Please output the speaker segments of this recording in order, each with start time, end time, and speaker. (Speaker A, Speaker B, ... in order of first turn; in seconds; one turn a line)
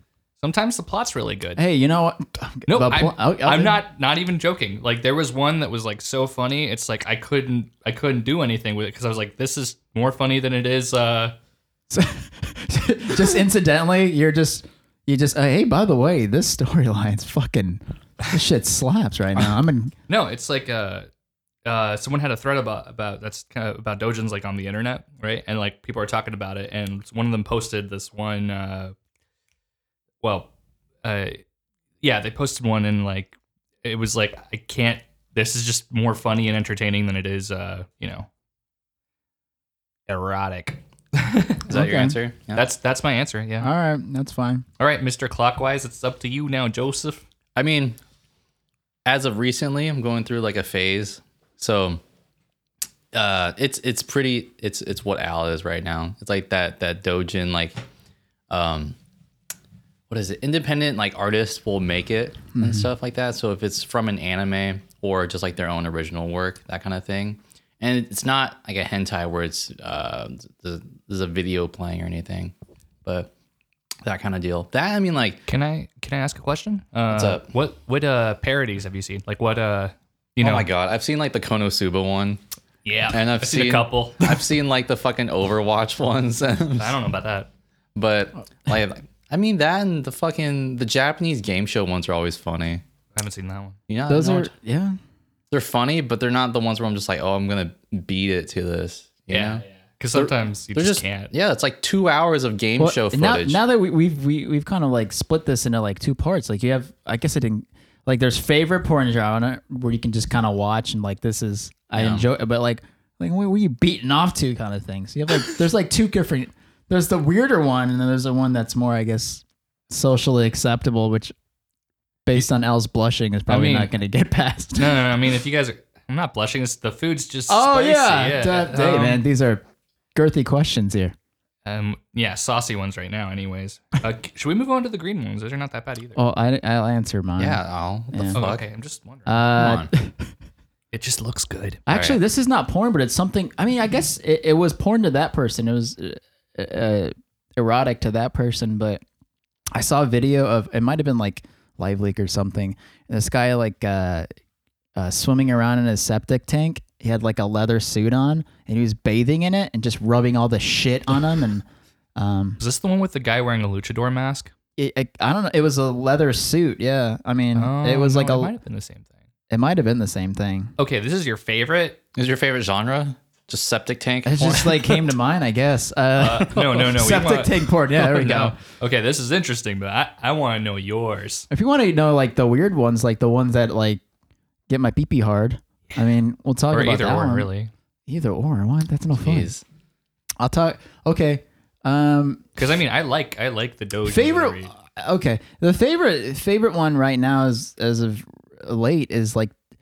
Speaker A: 0.4-1.6
Speaker B: 1.6-3.8
Speaker A: 2.7-11.3
Speaker B: 11.9-19.9
Speaker A: 20.1-21.1
Speaker A: 21.7-28.9
Speaker A: 30.2-30.5
Speaker A: 31.0-31.4
Speaker A: 32.0-38.3
Speaker A: 40.1-41.7
Speaker B: 41.7-42.2
Speaker C: 41.7-42.7
Speaker A: 42.5-43.7
Speaker B: 43.6-44.6
Speaker A: 44.8-47.2
Speaker C: 47.6-48.0
Speaker C: 49.1-52.0
Speaker C: 53.1-57.8
Speaker C: 58.5-59.0
Speaker C: 60.1-72.5
Speaker B: 62.5-62.9
Speaker C: 73.0-73.3
Speaker C: 74.0-75.4
Speaker A: 75.5-80.7
Speaker C: 77.1-77.5
Speaker C: 80.4-82.4
Speaker A: 82.8-84.3
Speaker C: 83.1-87.0
Speaker A: 86.8-87.5
Speaker C: 88.0-92.8
Speaker A: 93.2-93.8
Speaker C: 93.9-94.5
Speaker B: 94.1-95.0
Speaker C: 95.5-99.6
Speaker A: 99.3-101.3
Speaker C: 100.1-103.6
Speaker B: 102.8-121.3
Speaker C: 112.0-112.3
Speaker B: 122.3-125.0
Speaker A: 123.5-123.9
Speaker A: 124.8-129.2
Speaker B: 127.5-129.6
Speaker B: 130.2-131.2
Speaker A: 131.7-136.2
Speaker B: 136.2-138.4
Speaker C: 137.4-138.7
Speaker A: 138.3-139.6
Speaker B: 139.3-140.3
Speaker C: 139.6-139.9
Speaker A: 140.9-141.8
Speaker B: 141.9-149.0
Speaker C: 141.9-142.2
Speaker B: 149.7-154.3
Speaker B: 155.0-161.7
Speaker B: 162.2-162.6
Speaker A: 162.6-164.5
Speaker B: 164.8-168.5
Speaker A: 167.5-169.2
Speaker B: 169.5-170.7
Speaker A: 170.8-172.0
Speaker C: 172.2-175.1
Speaker B: 174.2-178.6
Speaker A: 176.2-181.5
Speaker B: 181.5-184.0
Speaker B: 184.7-187.5
Speaker A: 186.7-187.7
Speaker B: 188.1-189.5
Speaker C: 189.2-189.6
Speaker B: 190.4-192.5
Speaker A: 192.6-194.7
Speaker B: 194.1-199.5